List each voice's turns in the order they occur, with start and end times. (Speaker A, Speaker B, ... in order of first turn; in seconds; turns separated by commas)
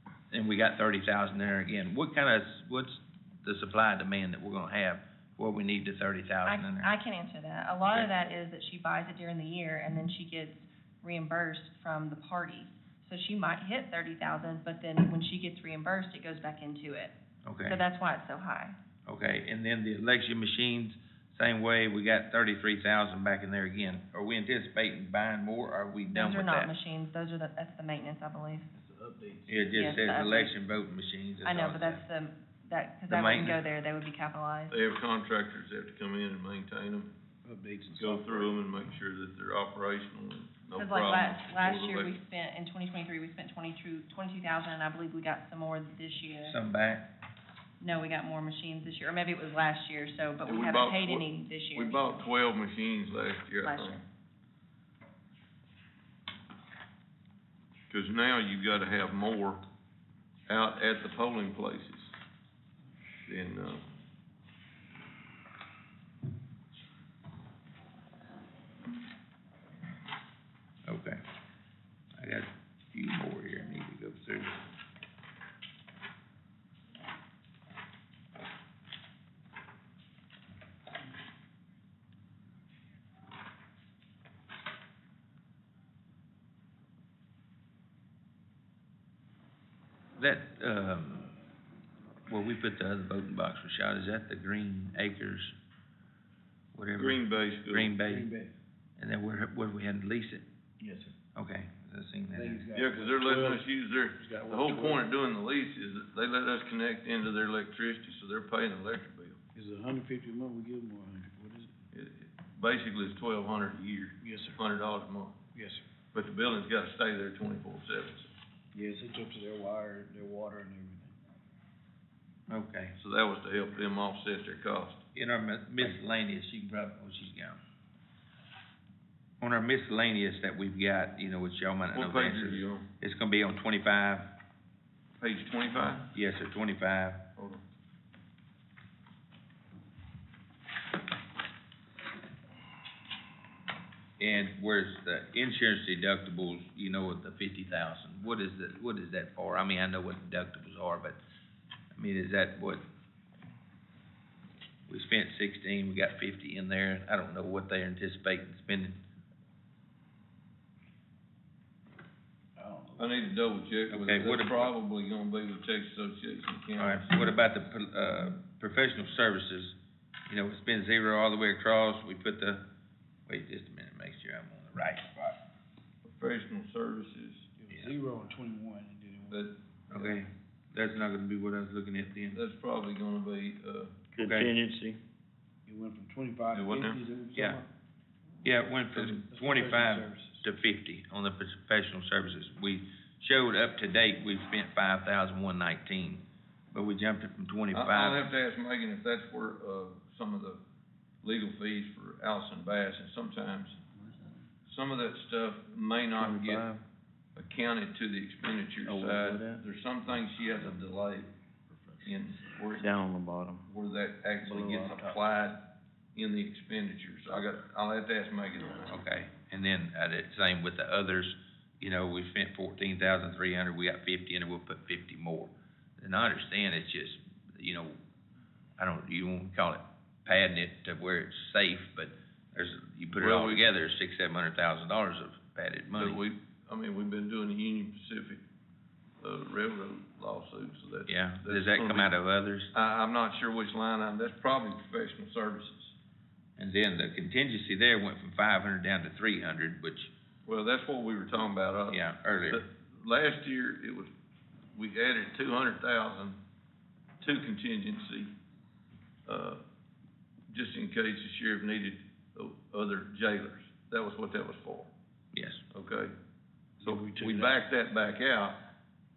Speaker A: 0.3-6.9, Speaker B: 6.5-17.1, Speaker A: 17.4-17.8, Speaker B: 17.7-18.8, Speaker A: 19.1-26.7, Speaker B: 26.1-28.7, Speaker C: 28.7-29.8, Speaker A: 29.5-32.0, Speaker B: 29.7-30.5, Speaker B: 31.4-34.8, Speaker A: 33.1-33.6, Speaker D: 34.7-37.1, Speaker C: 37.5-38.5, Speaker D: 38.0-42.1, Speaker B: 40.8-46.6, Speaker A: 46.5-47.1, Speaker B: 47.8-52.1, Speaker D: 50.5-54.0, Speaker B: 53.6-54.0, Speaker D: 57.9-59.6, Speaker D: 60.5-62.1, Speaker D: 63.3-63.9, Speaker A: 70.9-71.2, Speaker A: 72.2-74.5, Speaker A: 90.2-91.3, Speaker A: 92.3-95.5, Speaker A: 96.8-98.3, Speaker D: 97.0-97.9, Speaker C: 98.0-98.5, Speaker A: 99.0-100.4, Speaker C: 100.8-101.2, Speaker A: 101.4-102.7, Speaker C: 102.3-103.6, Speaker D: 102.8-109.4, Speaker C: 104.2-105.0, Speaker C: 109.5-111.7, Speaker D: 111.9-115.4, Speaker C: 114.2-114.6, Speaker C: 115.5-115.8, Speaker D: 116.1-118.3, Speaker C: 118.7-121.2, Speaker A: 122.5-123.0, Speaker D: 123.0-125.0, Speaker A: 125.2-127.6, Speaker A: 129.4-134.3, Speaker D: 131.9-132.9, Speaker D: 135.2-136.1, Speaker A: 136.1-137.2, Speaker A: 144.2-151.2, Speaker A: 151.9-152.8, Speaker A: 154.9-159.0, Speaker C: 162.6-163.3, Speaker D: 163.0-167.2, Speaker A: 163.9-164.7, Speaker A: 166.8-169.8, Speaker A: 170.3-172.6, Speaker A: 173.3-175.4, Speaker D: 176.0-177.5, Speaker C: 177.6-179.5, Speaker D: 179.3-180.2, Speaker A: 179.9-182.4, Speaker D: 182.3-184.0, Speaker E: 184.1-185.0, Speaker A: 184.2-184.5, Speaker C: 185.7-187.7, Speaker D: 186.5-187.0, Speaker A: 187.3-187.6, Speaker A: 188.4-198.3, Speaker C: 188.9-190.4, Speaker D: 197.7-200.6, Speaker D: 201.2-203.8, Speaker C: 203.9-204.3, Speaker D: 204.7-206.7, Speaker E: 206.2-206.8, Speaker D: 207.4-211.3, Speaker E: 208.8-209.6, Speaker C: 211.7-212.0, Speaker D: 212.0-212.9, Speaker E: 212.7-213.7, Speaker D: 213.7-215.6, Speaker E: 214.5-215.1, Speaker D: 216.2-219.0, Speaker A: 218.9-228.0, Speaker A: 228.8-236.2, Speaker D: 233.1-233.7, Speaker D: 235.9-238.4, Speaker D: 239.2-242.1, Speaker A: 241.1-242.7, Speaker D: 242.7-245.9, Speaker A: 246.6-250.1, Speaker D: 250.5-254.1, Speaker A: 251.9-252.6, Speaker D: 254.7-256.4, Speaker D: 257.2-258.3, Speaker D: 259.3-259.6, Speaker D: 260.5-264.9, Speaker A: 265.3-265.6, Speaker D: 265.7-266.1, Speaker C: 266.8-267.6, Speaker D: 266.8-268.6